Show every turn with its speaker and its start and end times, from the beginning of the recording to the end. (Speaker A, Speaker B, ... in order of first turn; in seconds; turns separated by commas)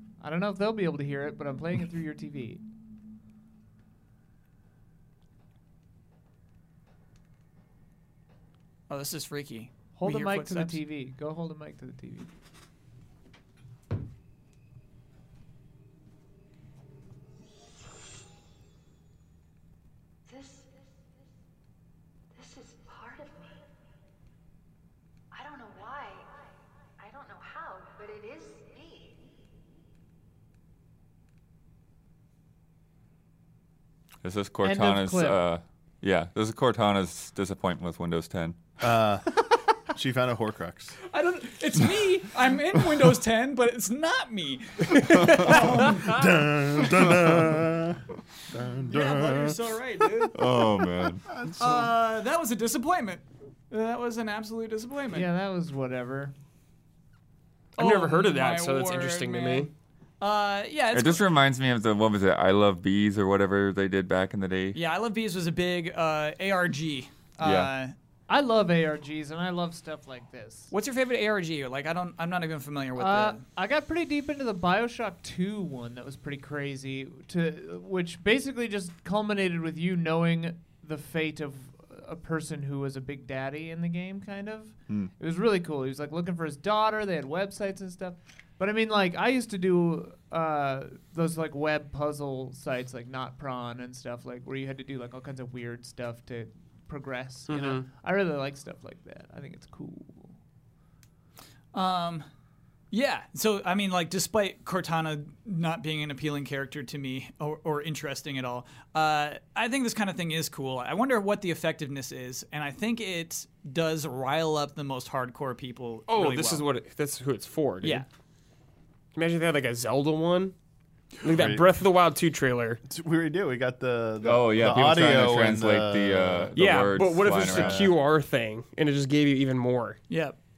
Speaker A: 0.2-2.6, Speaker B: 8.9-10.8, Speaker A: 10.0-12.3, Speaker C: 20.3-21.0, Speaker C: 22.3-23.6, Speaker C: 25.3-29.2, Speaker D: 34.2-38.8, Speaker A: 34.6-35.4, Speaker E: 38.8-39.3, Speaker E: 39.9-41.0, Speaker B: 41.1-46.2, Speaker F: 45.2-46.1, Speaker E: 46.0-49.6, Speaker B: 48.9-50.4, Speaker D: 50.3-51.3, Speaker E: 51.3-51.9, Speaker B: 51.6-55.3, Speaker A: 55.1-56.3, Speaker B: 57.8-59.7, Speaker F: 57.8-59.7, Speaker B: 60.2-61.3, Speaker D: 60.9-64.8, Speaker B: 64.7-67.9, Speaker D: 67.4-67.7, Speaker A: 68.3-70.7, Speaker B: 70.7-73.4, Speaker A: 73.0-100.3, Speaker F: 97.5-97.9, Speaker B: 101.7-102.3, Speaker B: 102.9-116.7, Speaker F: 116.1-118.1, Speaker F: 119.1-120.5, Speaker F: 121.2-122.8, Speaker E: 121.2-121.7, Speaker E: 122.9-126.5, Speaker D: 124.2-127.9, Speaker F: 126.6-130.0, Speaker E: 127.2-128.0, Speaker B: 130.1-130.4